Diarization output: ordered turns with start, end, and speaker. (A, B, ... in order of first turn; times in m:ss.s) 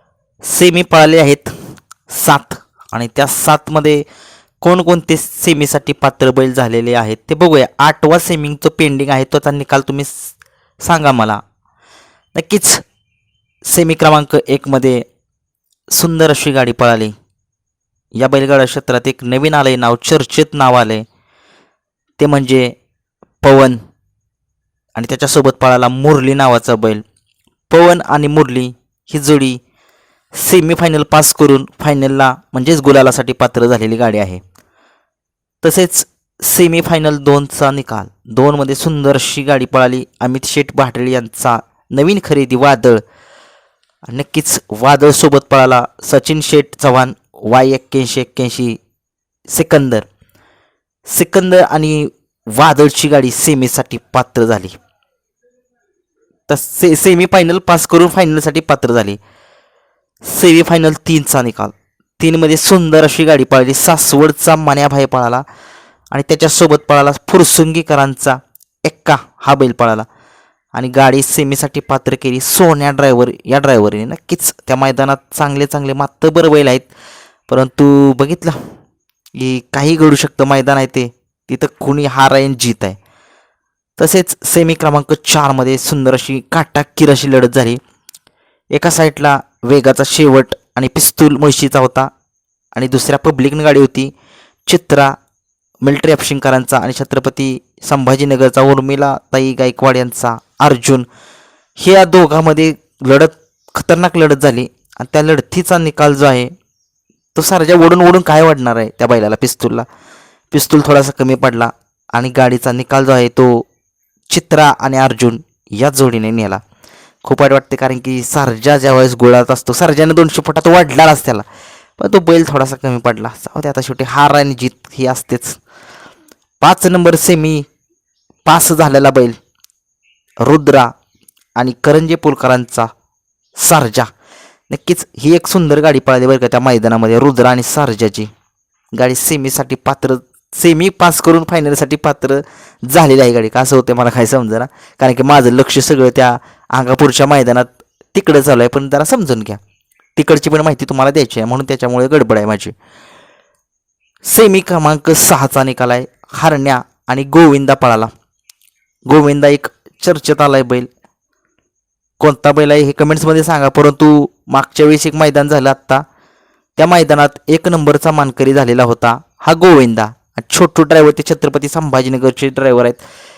0:00.4-0:01.5 A
0:02.1-0:04.0 A
0:04.6-0:11.4 A
0:12.3-0:12.8 A
0:13.6-0:15.0 A
0:15.9-0:17.1 A
0:18.1-0:21.0 A
0:22.2-0:22.7 A
0:23.4-0:23.8 A
0:25.0-0:27.0 A
0:27.7-0:29.6 A
0:30.3-0:34.4 A
0:35.6-0:43.0 A
0:44.1-0:48.8 A
0:49.5-0:50.1 A
0:51.0-0:54.8 A
0:56.5-0:59.2 A
1:00.2-1:05.4 A
1:06.1-1:10.1 A
1:10.7-1:16.9 A
1:17.5-1:18.6 A
1:19.3-1:23.0 A
1:24.0-1:27.8 A
1:28.7-1:32.1 A
1:32.7-1:34.1 A
1:34.6-1:35.1 A
1:35.8-1:41.0 A
1:41.8-1:46.5 A
1:47.3-1:49.8 A
1:50.5-1:53.7 A
1:54.3-1:56.6 A
1:57.2-2:01.4 A
2:02.0-2:05.6 A
2:06.6-2:07.6 A
2:08.4-2:09.4 A
2:10.4-2:10.9 A
2:11.6-2:12.9 A
2:13.6-2:14.1 A
2:14.7-2:18.3 A
2:18.9-2:29.6 A
2:30.2-2:32.7 A
2:34.2-2:38.1 A
2:39.0-2:40.9 A
2:42.2-2:46.0 A
2:46.8-2:53.0 A